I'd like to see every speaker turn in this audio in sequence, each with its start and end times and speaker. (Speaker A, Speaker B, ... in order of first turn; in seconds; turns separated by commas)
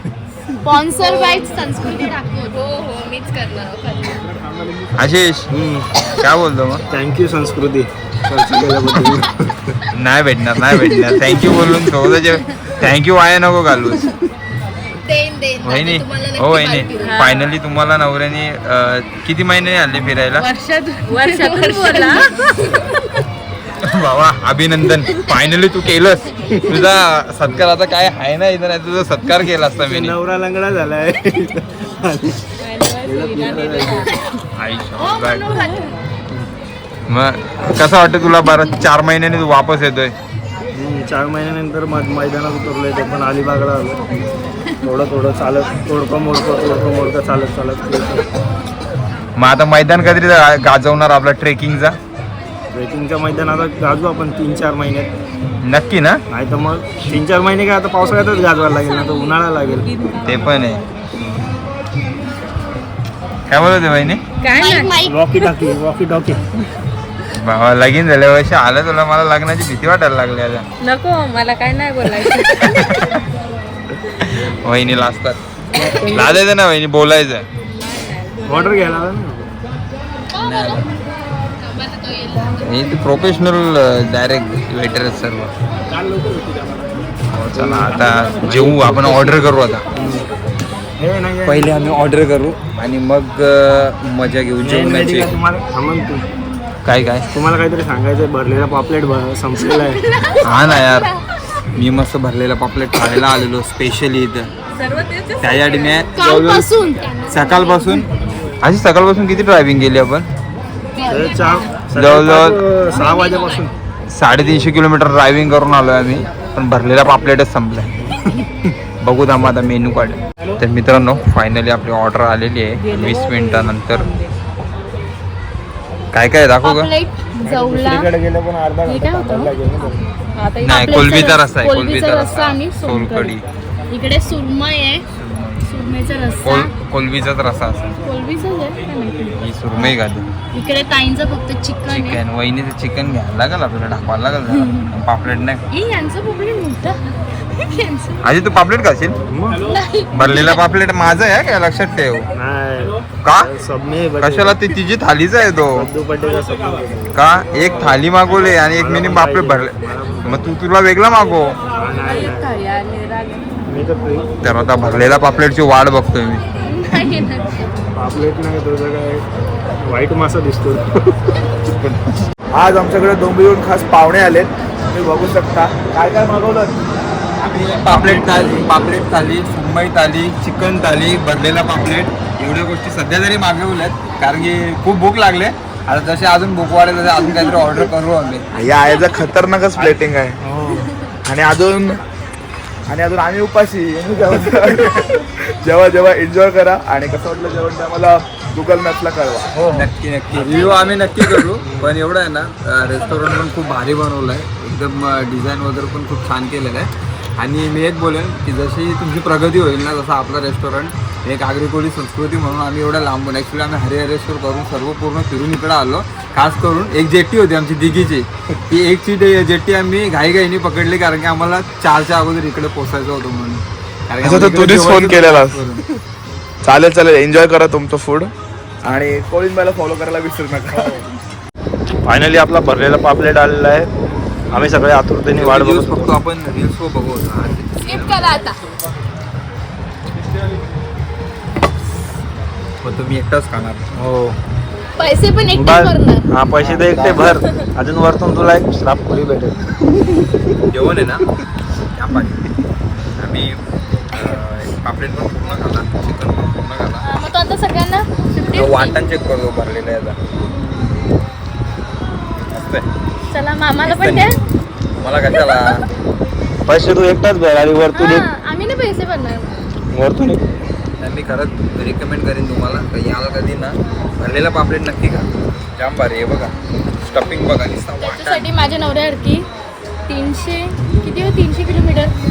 Speaker A: 0.6-4.4, Speaker B: 4.5-4.9, Speaker C: 4.9-5.5, Speaker B: 5.5-5.9, Speaker C: 6.2-6.8, Speaker B: 6.9-9.7, Speaker C: 9.9-14.2, Speaker A: 15.1-17.4, Speaker C: 15.6-20.5, Speaker D: 17.0-17.4, Speaker A: 20.4-22.9, Speaker D: 21.1-22.3, Speaker C: 23.8-30.2, Speaker B: 29.7-34.1, Speaker D: 32.6-34.1, Speaker C: 34.6-35.7, Speaker A: 35.0-36.0, Speaker C: 37.1-40.1, Speaker B: 40.8-44.0, Speaker B: 44.8-48.3, Speaker C: 49.4-52.0, Speaker B: 52.7-55.1, Speaker C: 55.6-56.2, Speaker B: 56.3-60.3, Speaker C: 60.2-60.8, Speaker C: 63.5-64.2, Speaker D: 64.4-65.0, Speaker A: 64.5-65.2, Speaker B: 65.0-66.6, Speaker C: 67.3-70.7, Speaker D: 70.8-73.0, Speaker C: 72.2-73.2, Speaker C: 74.2-77.5, Speaker D: 75.9-76.2, Speaker D: 78.1-78.6, Speaker B: 78.5-79.5, Speaker C: 80.3-80.9, Speaker A: 80.4-80.8, Speaker A: 81.6-82.6, Speaker C: 82.5-85.5, Speaker B: 86.0-86.4, Speaker C: 87.3-89.8, Speaker B: 87.5-89.4, Speaker B: 90.0-90.3, Speaker B: 91.0-91.8, Speaker C: 91.5-95.4, Speaker B: 94.6-96.3, Speaker C: 96.8-97.3, Speaker B: 97.3-100.0, Speaker A: 100.1-101.1, Speaker C: 100.4-101.1, Speaker C: 101.8-104.5, Speaker D: 104.8-106.3, Speaker C: 105.4-106.7, Speaker A: 106.2-107.8, Speaker C: 107.3-108.1, Speaker C: 108.6-110.3, Speaker A: 111.0-111.8, Speaker B: 111.1-113.7, Speaker C: 112.0-112.6, Speaker A: 113.0-113.7, Speaker C: 114.1-118.5, Speaker C: 119.0-124.2, Speaker D: 122.9-124.2, Speaker C: 126.1-126.9, Speaker A: 126.6-128.1, Speaker B: 127.4-130.1, Speaker A: 128.9-129.5, Speaker D: 130.4-131.0, Speaker A: 130.6-133.4, Speaker C: 130.6-133.4, Speaker A: 133.9-135.1, Speaker C: 135.1-135.9, Speaker A: 135.6-136.7, Speaker C: 136.4-138.0, Speaker A: 138.1-139.9, Speaker C: 139.3-140.3, Speaker A: 140.5-142.2, Speaker C: 141.9-145.6, Speaker A: 145.7-147.0, Speaker A: 147.5-148.2, Speaker C: 148.2-149.2, Speaker B: 149.3-149.6, Speaker A: 149.7-150.6, Speaker C: 150.1-152.3, Speaker B: 152.3-154.6, Speaker C: 153.2-153.5, Speaker C: 154.2-155.9, Speaker B: 155.7-157.2, Speaker C: 157.1-161.6, Speaker B: 158.7-160.5, Speaker B: 161.8-162.5, Speaker D: 162.1-163.6, Speaker B: 163.7-164.3, Speaker C: 164.4-166.4, Speaker A: 166.7-167.5, Speaker B: 167.9-169.2, Speaker B: 169.8-171.0, Speaker E: 172.6-176.8, Speaker C: 177.5-188.5, Speaker B: 178.3-178.6, Speaker E: 188.5-190.4, Speaker B: 189.8-190.9, Speaker E: 191.3-192.0, Speaker E: 192.9-199.6, Speaker B: 199.6-200.8, Speaker C: 199.7-225.8, Speaker B: 201.4-201.9, Speaker E: 224.2-225.6, Speaker E: 226.6-228.3, Speaker E: 228.9-231.0, Speaker B: 232.1-233.9, Speaker B: 234.5-236.2, Speaker C: 235.3-238.5, Speaker A: 237.8-238.6, Speaker C: 242.8-243.9, Speaker B: 244.0-244.4, Speaker A: 245.0-246.3, Speaker B: 245.5-250.4, Speaker C: 246.6-247.4, Speaker C: 250.7-251.3, Speaker C: 251.9-252.5, Speaker C: 253.2-253.6, Speaker C: 254.1-257.1, Speaker A: 257.0-259.0, Speaker C: 258.5-260.2, Speaker C: 262.5-262.8, Speaker A: 263.3-264.4, Speaker C: 263.8-264.4, Speaker C: 265.0-265.8, Speaker A: 265.3-265.8, Speaker B: 266.7-268.3, Speaker A: 267.9-269.5, Speaker B: 269.9-270.4, Speaker C: 271.0-278.5, Speaker A: 278.0-279.5, Speaker A: 280.1-282.1